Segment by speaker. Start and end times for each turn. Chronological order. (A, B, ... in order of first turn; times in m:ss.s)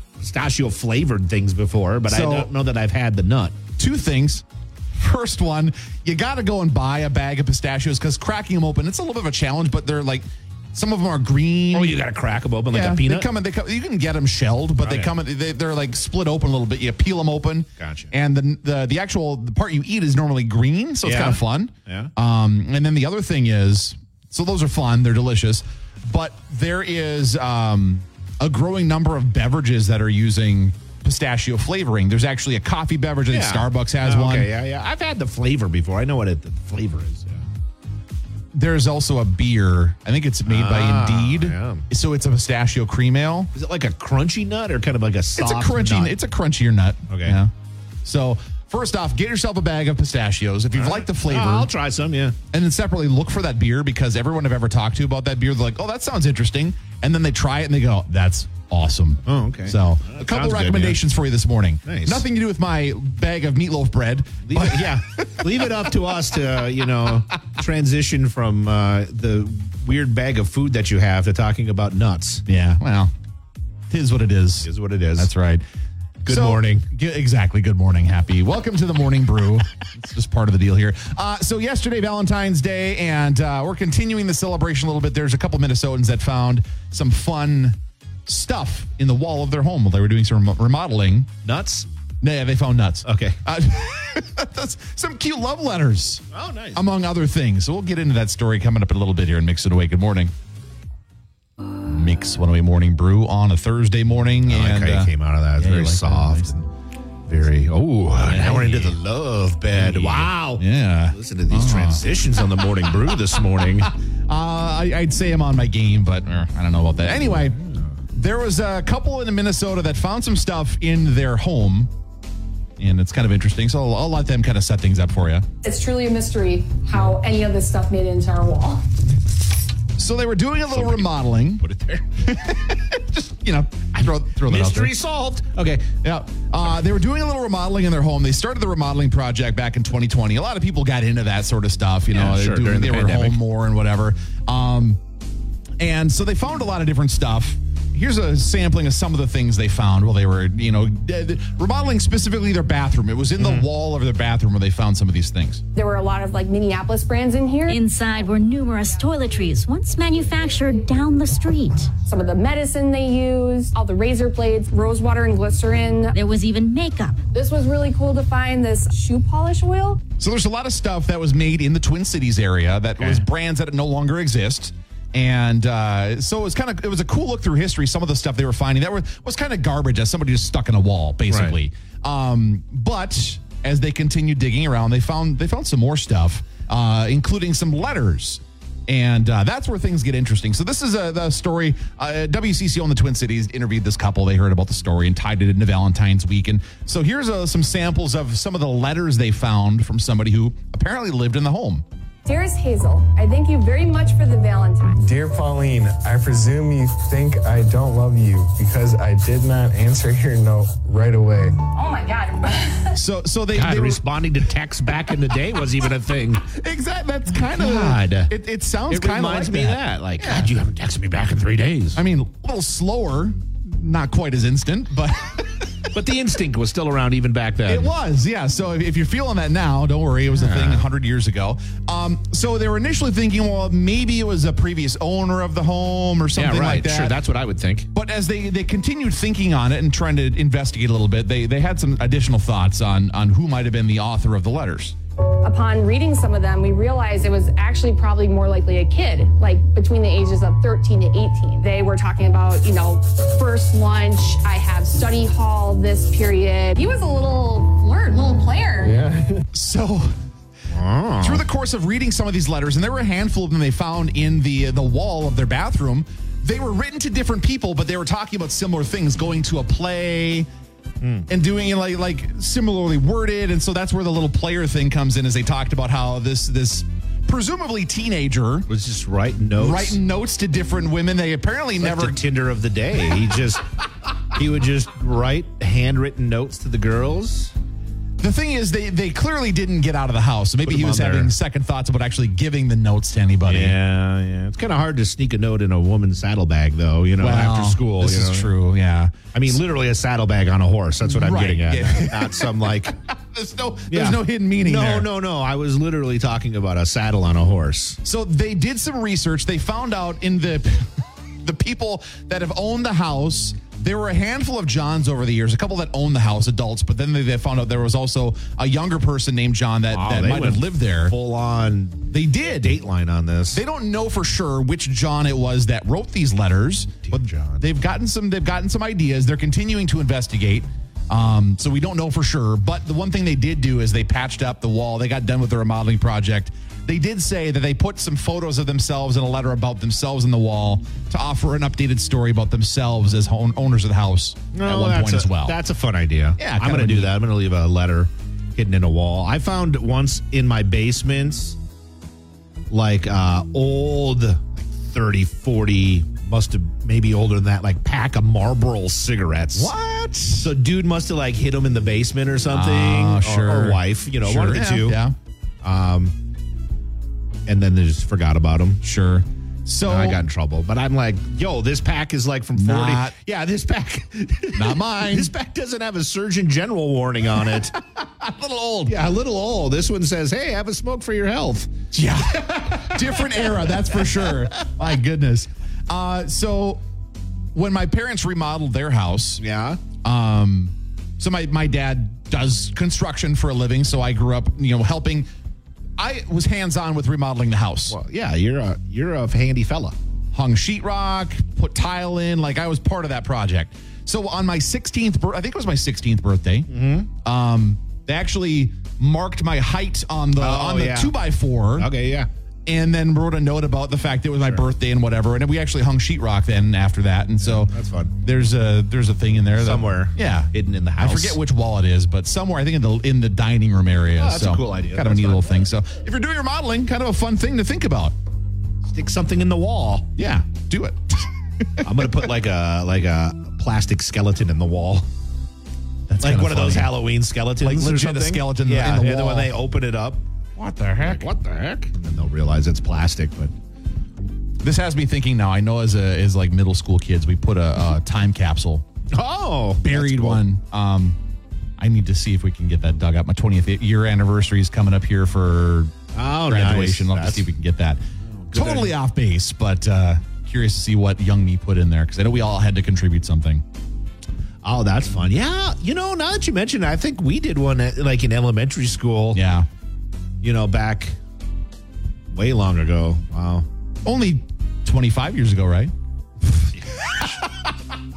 0:00.2-0:03.6 A
0:02.0-0:02.5 B
0:03.8-0:12.0 B
0:11.7-0:13.3 A
0:12.7-0:34.5 B
0:14.8-0:15.1 A
0:17.8-0:18.1 A
0:21.0-0:22.1 A
0:33.3-0:37.4 A
0:38.5-0:43.5 B
0:40.4-0:41.8 A
0:43.5-0:46.1 A
0:45.4-0:47.5 B
0:47.1-0:47.4 A
0:48.0-0:51.7 B
0:50.7-0:52.4 A
0:52.5-1:05.9 B
0:59.2-1:01.0 A
1:01.8-1:02.2 A
1:04.4-1:12.4 A
1:12.4-1:13.1 B
1:13.9-1:15.6 B
1:14.6-1:15.3 A
1:16.2-1:16.8 A
1:16.2-1:31.3 B
1:31.4-1:31.9 A
1:32.2-1:40.3 B
1:33.0-1:33.4 A
1:36.3-1:36.8 A
1:41.8-1:46.5 B
1:44.4-1:46.7 A
1:47.3-1:53.9 A
1:48.2-1:49.0 B
1:49.7-1:52.8 B
1:53.5-1:57.6 B
1:57.6-1:57.9 A
1:58.1-2:01.9 B
2:02.8-2:05.4 B
2:05.6-2:08.9 C
2:10.0-2:11.6 B
2:10.7-2:12.1 A
2:12.2-2:14.9 B
2:14.4-2:15.9 A
2:16.0-2:25.0 B
2:22.1-2:23.4 A
2:25.8-2:35.6 B
2:33.4-2:33.7 A
2:35.7-2:37.8 C
2:37.7-2:41.9 D
2:42.0-2:46.1 C
2:46.1-2:47.2 D
2:47.3-2:50.0 C
2:50.2-3:21.8 B
2:53.0-2:53.2 A
3:01.3-3:01.6 A
3:22.2-3:25.0 C
3:24.9-3:31.7 E
3:31.7-3:32.9 C
3:32.9-3:34.0 B
3:33.5-3:36.4 A
3:36.5-3:40.5 B
3:37.3-3:38.3 A
3:38.9-3:42.0 A
3:41.9-3:45.8 B
3:45.9-3:47.9 A
3:47.7-3:57.2 B
3:50.3-3:50.8 A
3:56.4-3:57.9 A
3:57.9-4:05.0 B
4:05.4-4:19.0 C
4:18.8-4:19.4 E
4:19.5-4:20.1 B
4:20.7-4:21.4 A
4:21.2-4:30.5 B
4:31.0-4:31.3 A
4:31.3-4:38.7 B
4:38.7-4:40.0 A
4:39.6-4:42.2 B
4:41.8-4:43.6 A
4:44.3-4:47.5 A
4:48.2-4:53.8 B
4:50.6-4:51.3 A
4:53.4-4:58.5 A
4:57.2-4:59.6 B
4:59.3-5:02.9 A
5:01.0-5:05.1 B
5:03.9-5:08.0 A
5:08.0-5:21.2 B
5:19.9-5:23.6 A
5:22.1-5:22.7 B
5:23.5-5:45.6 B
5:27.0-5:27.6 A
5:44.5-5:51.6 A
5:46.4-5:47.2 B
5:52.7-5:59.7 A
5:59.5-6:00.5 B
6:00.3-6:05.0 A
6:02.5-6:05.2 B
6:05.6-6:06.2 A
6:07.5-6:08.8 A
6:08.8-6:10.2 B
6:09.8-6:17.8 A
6:12.5-6:13.2 B
6:14.5-6:15.3 B
6:17.6-6:19.0 B
6:18.8-6:21.7 A
6:21.9-6:26.8 B
6:22.5-6:24.5 A
6:27.5-6:29.4 B
6:29.4-6:29.8 A
6:30.0-6:35.3 B
6:36.0-6:38.0 B
6:37.9-6:40.0 A
6:40.3-6:51.9 B
6:46.7-6:47.1 A
6:50.4-6:51.2 A
6:51.7-6:52.3 A
6:52.6-7:08.1 B
6:57.4-6:58.1 A
6:59.6-7:01.4 A
7:04.2-7:05.6 A
7:08.8-7:10.1 A
7:10.2-7:12.1 B
7:11.8-7:15.1 A
7:16.1-7:17.0 B
7:16.2-7:20.2 A
7:17.6-7:19.5 B
7:20.6-7:21.3 B
7:20.9-7:23.5 A
7:24.6-7:28.8 B
7:29.1-7:30.4 A
7:29.8-7:31.2 B
7:31.8-7:35.9 B
7:36.1-7:37.4 A
7:36.4-7:43.6 B
7:38.5-7:38.9 A
7:44.6-7:49.4 A
7:49.3-7:49.7 B
7:50.4-7:51.2 A
7:52.3-7:53.7 A
7:54.0-7:57.4 B